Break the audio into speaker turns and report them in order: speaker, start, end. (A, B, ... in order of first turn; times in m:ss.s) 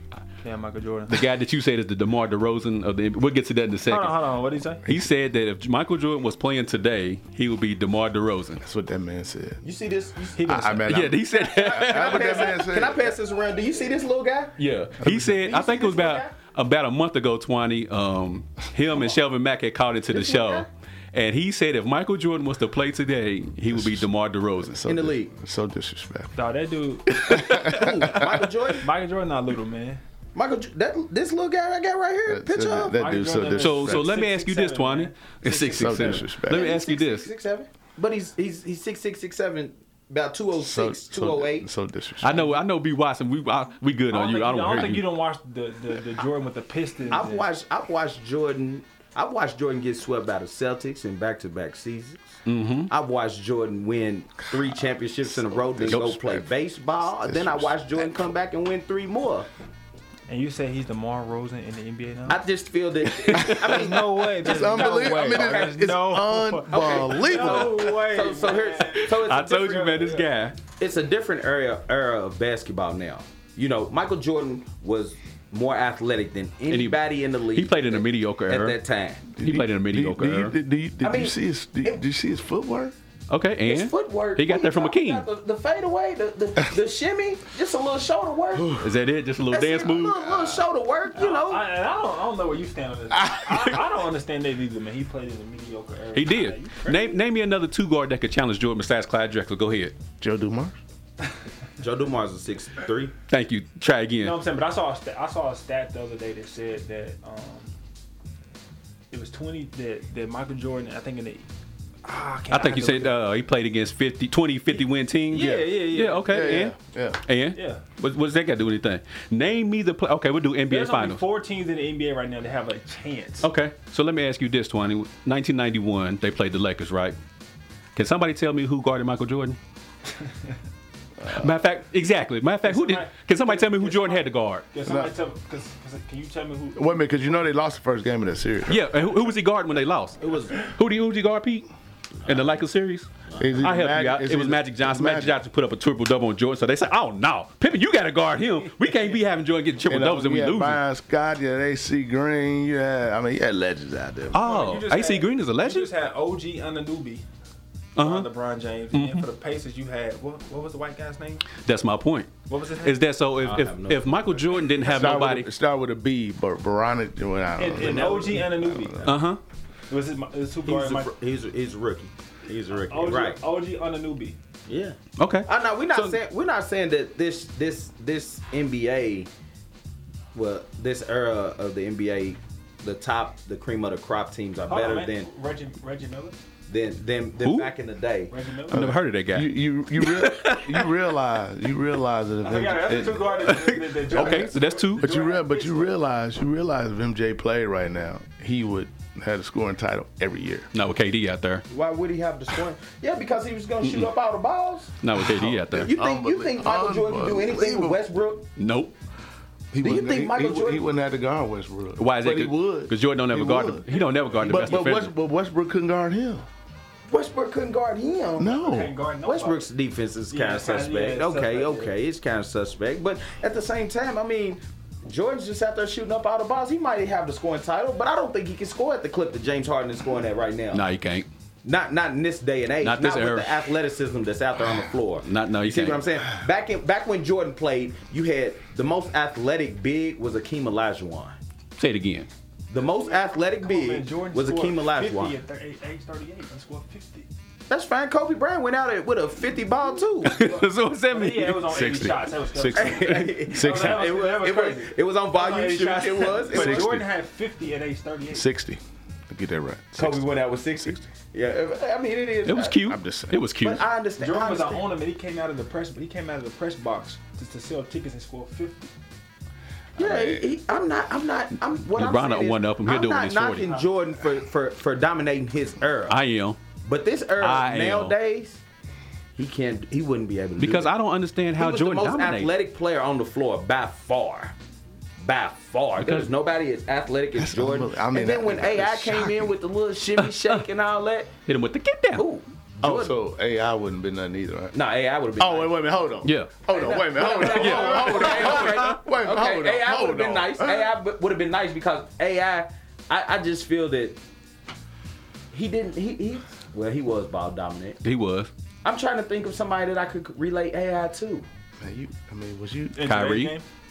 0:00.4-0:01.2 A
0:01.1-0:04.2 B
0:03.9-0:04.8 A
0:04.9-0:08.6 B
0:08.6-0:09.6 C
0:09.6-0:10.6 D
0:10.4-0:10.9 A
0:10.4-0:13.1 C
0:10.9-0:12.6 B
0:11.4-0:14.6 D
0:14.6-0:24.8 B
0:15.0-0:15.4 C
0:15.4-0:16.3 D
0:20.1-0:20.7 D
0:23.7-0:26.4 C
0:24.9-0:25.3 D
0:26.4-0:27.4 A
0:27.2-0:28.5 C
0:27.3-0:27.7 B
0:27.5-0:28.9 D
0:28.8-0:30.0 A
0:30.4-0:33.0 D
0:32.3-0:34.1 C
0:32.9-0:36.3 A
0:33.6-0:37.3 B
0:35.7-0:36.7 C
0:36.4-0:41.7 D
0:40.6-0:42.6 C
0:42.2-0:45.1 B
0:44.1-0:47.5 A
0:47.1-0:52.2 D
0:52.5-0:52.9 B
0:52.9-0:59.5 D
0:54.5-0:56.4 C
0:55.9-0:56.2 B
0:57.1-0:58.1 C
1:00.3-1:02.4 A
1:02.3-1:05.9 D
1:03.1-1:03.8 B
1:03.6-1:10.3 A
1:04.4-1:07.9 C
1:06.7-1:09.9 D
1:09.0-1:10.6 B
1:10.7-1:19.3 D
1:16.7-1:17.0 B
1:17.5-1:18.8 B
1:19.4-1:23.0 C
1:19.4-1:20.6 B
1:21.0-1:22.0 D
1:23.3-1:25.3 B
1:23.6-1:28.8 D
1:28.5-1:28.9 C
1:28.8-1:30.2 B
1:29.5-1:31.7 D
1:30.1-1:30.6 C
1:31.1-1:37.2 A
1:33.2-1:33.7 C
1:36.1-1:40.0 B
1:40.2-1:40.8 C
1:41.8-1:43.1 D
1:43.3-1:44.4 B
1:44.2-1:47.7 A
1:49.1-1:51.5 A
1:52.0-1:53.2 A
1:52.5-2:01.2 B
1:55.3-1:56.6 A
1:56.3-1:57.2 C
1:57.5-1:57.8 A
2:00.7-2:03.5 A
2:03.4-2:07.2 B
2:08.0-2:09.6 B
2:11.2-2:11.6 C
2:11.3-2:14.7 B
2:12.6-2:17.1 A
2:14.8-2:15.1 C
2:16.8-2:18.8 C
2:18.7-2:21.7 B
2:20.2-2:20.6 D
2:22.2-2:30.8 B
2:22.3-2:22.6 D
2:23.4-2:25.4 C
2:29.9-2:34.4 C
2:34.3-2:35.9 B
2:34.3-2:37.2 A
2:38.0-2:38.3 B
2:38.0-2:41.5 A
2:38.9-2:39.3 B
2:41.6-2:45.5 B
2:42.5-2:43.0 A
2:43.4-2:44.4 D
2:44.8-2:49.2 C
2:47.6-2:49.0 A
2:47.8-2:48.3 D
2:49.0-2:49.4 B
2:49.9-2:51.1 A
2:50.6-2:53.4 D
2:52.9-2:54.4 A
2:54.7-2:59.3 D
2:55.2-2:56.2 B
3:00.3-3:05.3 D
3:04.7-3:06.4 A
3:06.7-3:08.4 D
3:07.4-3:07.7 B
3:08.3-3:08.9 A
3:08.7-3:13.5 C
3:08.7-3:11.0 B
3:12.4-3:15.9 A
3:13.4-3:15.1 B
3:14.1-3:20.7 C
3:20.7-3:21.6 B
3:21.7-3:25.0 D
3:23.8-3:24.1 B
3:25.0-3:25.9 B
3:25.2-3:28.0 C
3:25.8-3:28.5 D
3:28.6-3:29.0 B
3:29.7-3:33.9 C
3:29.8-3:30.8 D
3:32.0-3:35.1 B
3:33.9-3:34.6 A
3:34.4-3:36.5 C
3:37.1-3:38.5 D
3:38.4-3:38.9 C
3:38.5-3:39.7 A
3:39.2-3:50.8 D
3:40.3-3:41.9 A
3:50.7-3:51.3 B
3:51.6-4:01.4 D
3:52.8-3:53.7 B
3:55.2-3:56.1 B
4:01.8-4:02.3 B
4:02.7-4:05.4 D
4:03.1-4:07.3 A
4:07.7-4:10.4 D
4:10.2-4:12.1 B
4:10.3-4:18.5 A
4:11.7-4:14.1 C
4:12.7-4:16.9 D
4:16.5-4:17.1 B
4:18.3-4:21.0 C
4:20.0-4:22.8 D
4:22.4-4:23.8 B
4:22.8-4:23.5 C
4:23.6-4:24.9 D
4:24.2-4:28.9 A
4:30.0-4:30.6 C
4:30.0-4:36.2 D
4:31.9-4:33.7 B
4:33.6-4:33.9 A
4:36.1-4:36.6 B
4:36.8-4:38.6 D
4:37.4-4:38.2 B
4:39.4-4:40.9 D
4:40.6-4:42.5 B
4:41.6-4:44.6 D
4:45.2-4:51.3 D
4:46.0-4:46.3 B
4:47.4-4:49.6 C
4:50.2-4:50.6 B
4:51.5-4:52.2 B
4:52.2-4:53.2 D
4:52.8-4:54.8 C
4:54.7-4:55.9 D
4:55.4-5:01.0 C
4:56.2-4:56.6 B
4:56.7-5:04.2 D
4:57.2-4:59.0 B
5:05.5-5:08.0 D
5:08.0-5:08.5 B
5:08.8-5:11.5 D
5:11.8-5:13.1 C
5:13.0-5:13.6 A
5:13.0-5:13.6 B